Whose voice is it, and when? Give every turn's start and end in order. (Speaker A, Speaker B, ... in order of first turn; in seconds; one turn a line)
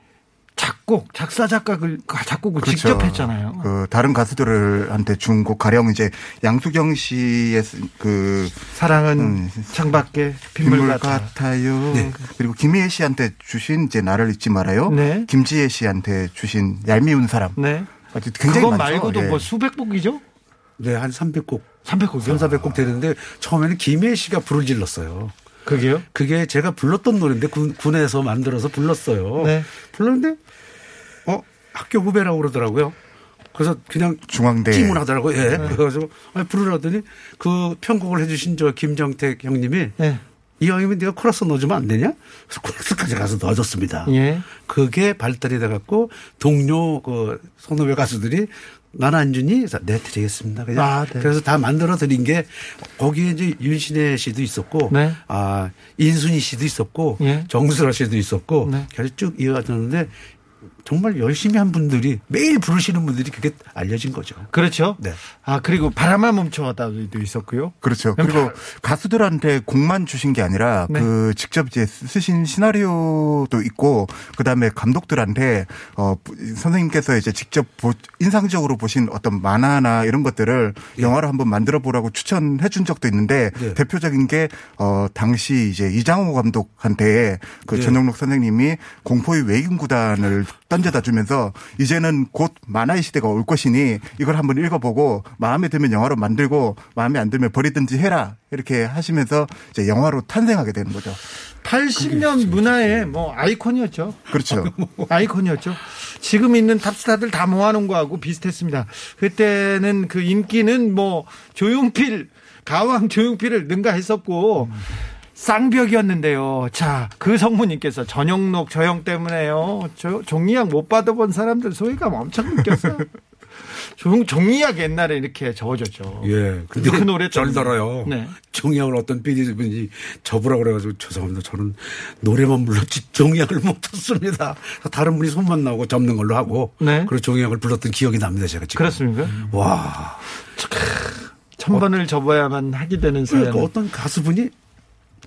Speaker A: 0.6-3.7
Speaker B: 2.6-10.0
Speaker A: 8.8-11.3
Speaker B: 10.6-19.5
Speaker A: 14.9-15.3
Speaker A: 17.6-17.9
Speaker A: 18.4-20.2
Speaker C: 20.8-21.7
Speaker A: 21.9-22.5
Speaker C: 22.2-25.3
Speaker A: 25.7-26.1
Speaker C: 26.1-30.4
Speaker A: 29.4-29.7
Speaker C: 31.3-33.0
Speaker C: 33.5-40.0
Speaker B: 34.3-35.8
Speaker C: 40.6-60.1
Speaker A: 44.1-44.5
Speaker A: 50.8-51.3
Speaker A: 54.9-55.2
Speaker A: 57.2-57.5
Speaker C: 60.8-65.2
Speaker A: 64.5-68.5
Speaker B: 67.8-101.2
Speaker C: 87.7-88.0
Speaker A: 101.6-104.2
Speaker C: 102.0-102.7
Speaker B: 104.3-104.7
Speaker C: 104.5-105.1
Speaker A: 105.1-123.1
Speaker A: 123.8-128.3
Speaker C: 126.2-140.2
Speaker A: 136.8-137.1
Speaker A: 138.8-139.4
Speaker A: 140.6-143.7
Speaker C: 143.3-144.5